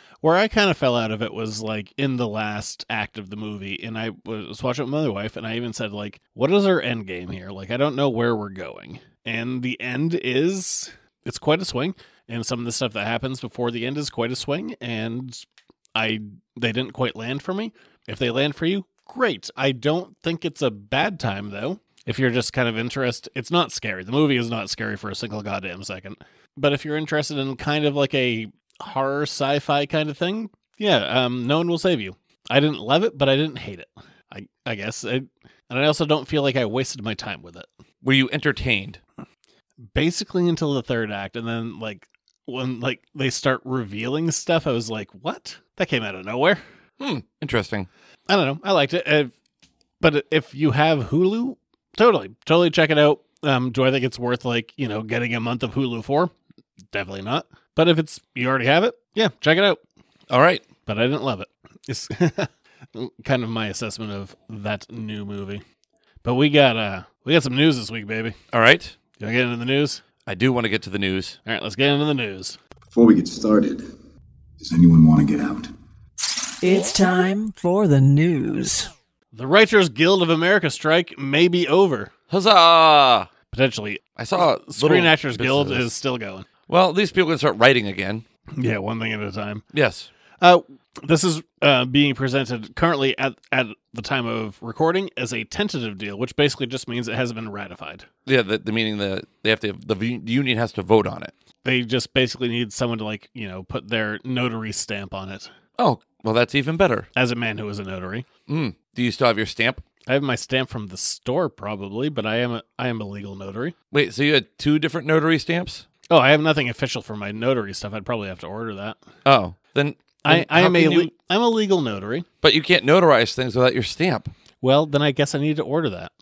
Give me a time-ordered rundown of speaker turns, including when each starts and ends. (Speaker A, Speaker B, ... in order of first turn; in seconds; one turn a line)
Speaker A: 0.2-37.7
Speaker B: 38.0-39.0
Speaker A: 39.9-46.6
Speaker B: 47.0-47.9
Speaker A: 48.3-49.3
Speaker A: 50.0-56.3
Speaker A: 56.9-59.8
Speaker B: 60.3-60.6
Speaker A: 60.9-65.6
Speaker A: 66.2-68.3
Speaker B: 68.5-69.0
Speaker A: 69.2-70.0
Speaker B: 70.2-71.4
Speaker A: 71.5-72.6
Speaker C: 72.9-73.9
Speaker C: 74.6-75.7
Speaker D: 76.6-78.9
Speaker A: 79.3-82.1
Speaker B: 82.3-83.3
Speaker A: 83.5-86.5
Speaker B: 84.2-85.9
Speaker B: 86.7-88.2
Speaker A: 88.5-89.6
Speaker B: 89.7-90.1
Speaker A: 90.4-98.0
Speaker B: 98.2-101.3
Speaker A: 101.6-105.5
Speaker B: 105.8-107.1
Speaker A: 107.1-108.3
Speaker B: 108.5-109.8
Speaker A: 110.1-113.7
Speaker B: 113.9-115.8
Speaker A: 116.1-119.0
Speaker B: 119.2-121.1
Speaker A: 120.2-122.2
Speaker B: 122.4-124.3
Speaker A: 124.6-126.1